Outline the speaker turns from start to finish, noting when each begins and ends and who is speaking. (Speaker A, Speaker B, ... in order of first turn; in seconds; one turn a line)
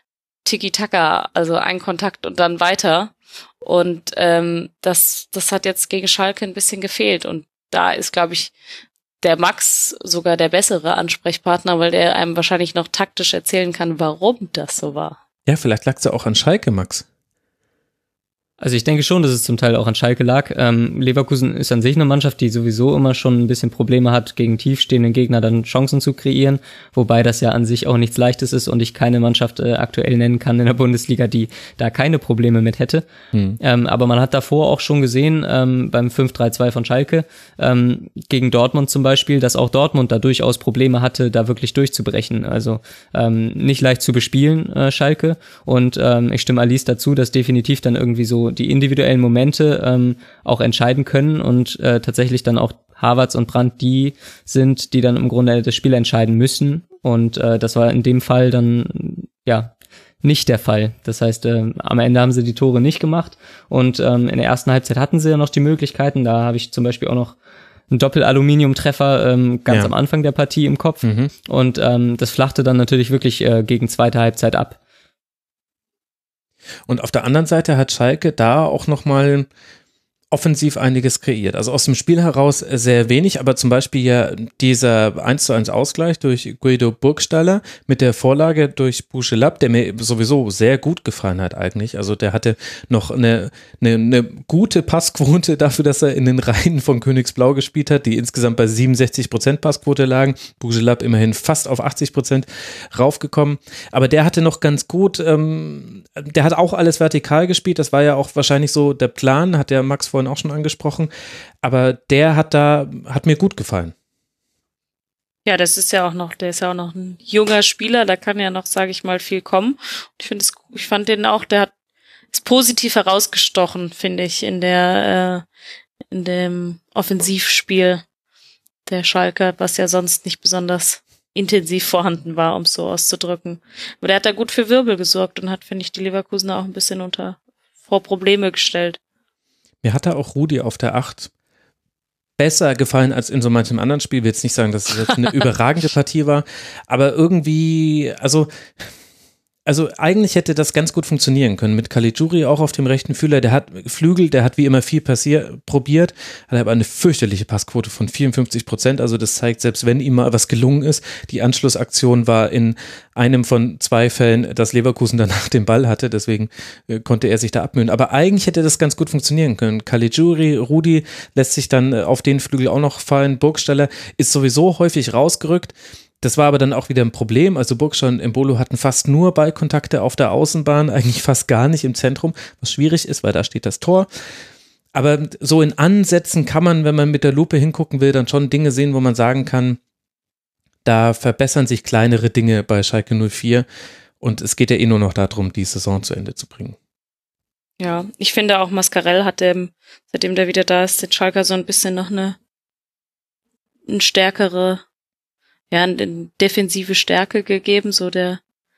Speaker A: 0.4-8.5
Speaker A: 9.2-15.2
Speaker B: 15.5-17.1
Speaker C: 18.6-33.1
Speaker B: 33.3-33.6
Speaker C: 33.6-67.3
Speaker C: 67.9-74.8
Speaker B: 71.0-71.3
Speaker B: 76.9-79.5
Speaker B: 80.3-111.1
Speaker B: 111.6-113.9
Speaker A: 115.4-121.7
Speaker A: 122.3-125.4
Speaker A: 126.1-128.0
Speaker A: 128.8-139.0
Speaker B: 139.8-141.3
Speaker B: 142.4-148.5
Speaker B: 149.7-184.1
Speaker B: 184.9-189.8
Speaker B: 190.8-193.7
Speaker B: 194.2-196.8
Speaker A: 197.8-202.4
Speaker A: 203.9-204.8
Speaker A: 205.7-208.4